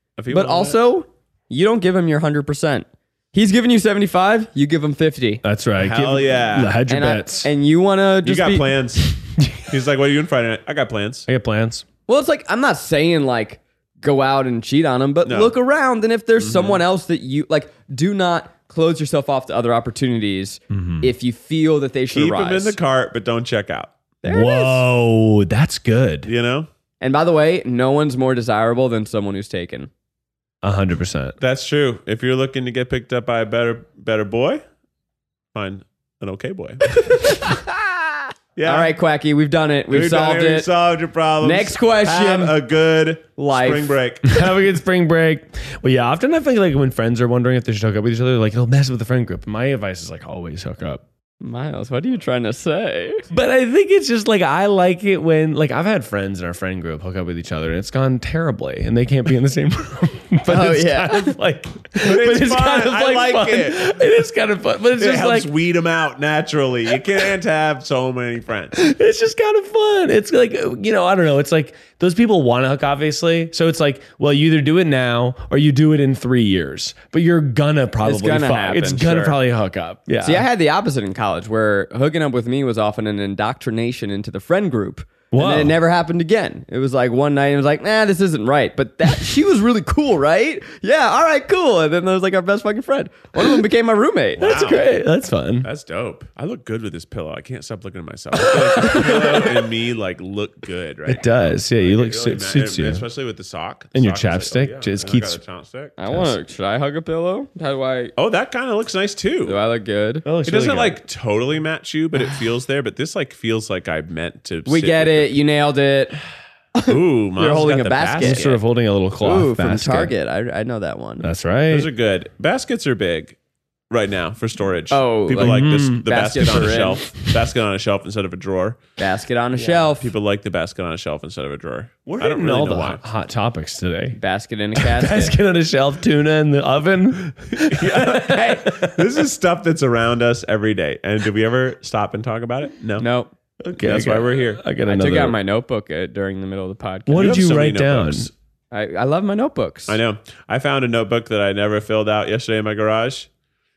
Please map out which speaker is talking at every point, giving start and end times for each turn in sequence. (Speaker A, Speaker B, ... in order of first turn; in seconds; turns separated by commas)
Speaker A: 0.2-0.8, Speaker B: 0.3-5.4, Speaker C: 5.4-7.5, Speaker A: 5.8-6.8, Speaker B: 6.9-8.7, Speaker A: 8.2-11.3, Speaker C: 9.4-9.7, Speaker C: 11.3-11.8, Speaker B: 12.1-22.8, Speaker A: 15.2-15.5, Speaker A: 16.4-16.8, Speaker C: 20.7-21.1, Speaker A: 22.1-23.9, Speaker B: 24.2-24.8, Speaker C: 24.3-26.3, Speaker A: 26.2-26.7, Speaker B: 27.0-29.9, Speaker C: 30.6-31.4, Speaker A: 31.4-34.6, Speaker A: 35.5-37.2, Speaker B: 37.0-38.1, Speaker A: 38.6-38.9, Speaker B: 38.7-40.7, Speaker A: 39.9-44.4, Speaker B: 41.4-42.6, Speaker B: 43.4-43.9, Speaker C: 44.2-51.0, Speaker B: 51.4-53.3, Speaker C: 53.3-65.5, Speaker B: 60.5-61.4, Speaker A: 62.0-63.9, Speaker A: 65.0-68.8, Speaker C: 68.7-80.5, Speaker B: 78.0-79.4, Speaker B: 80.2-94.8, Speaker C: 85.3-85.8, Speaker A: 94.4-94.9, Speaker C: 94.4-95.7, Speaker A: 95.6-106.0, Speaker C: 98.4-99.4, Speaker B: 98.9-99.4, Speaker C: 101.1-103.0, Speaker C: 104.0-105.4, Speaker B: 106.0-108.1, Speaker C: 106.1-106.4, Speaker A: 108.2-109.6, Speaker B: 109.5-110.2, Speaker C: 110.2-111.0, Speaker A: 110.5-115.3, Speaker B: 114.7-116.2, Speaker B: 116.8-118.6, Speaker A: 116.9-118.5, Speaker C: 118.2-120.1, Speaker B: 119.2-121.3, Speaker C: 121.2-121.9, Speaker A: 121.7-123.4, Speaker A: 123.9-128.8, Speaker B: 124.9-127.1, Speaker C: 125.4-127.4, Speaker B: 129.0-130.1, Speaker A: 129.7-133.0, Speaker C: 132.1-134.2, Speaker B: 134.2-135.4, Speaker C: 134.8-139.2, Speaker A: 137.5-143.1, Speaker B: 143.0-143.3, Speaker C: 143.6-145.4, Speaker A: 143.8-144.6, Speaker B: 144.8-147.5, Speaker C: 147.1-148.3, Speaker A: 147.2-148.3, Speaker B: 148.7-150.0, Speaker A: 149.9-153.3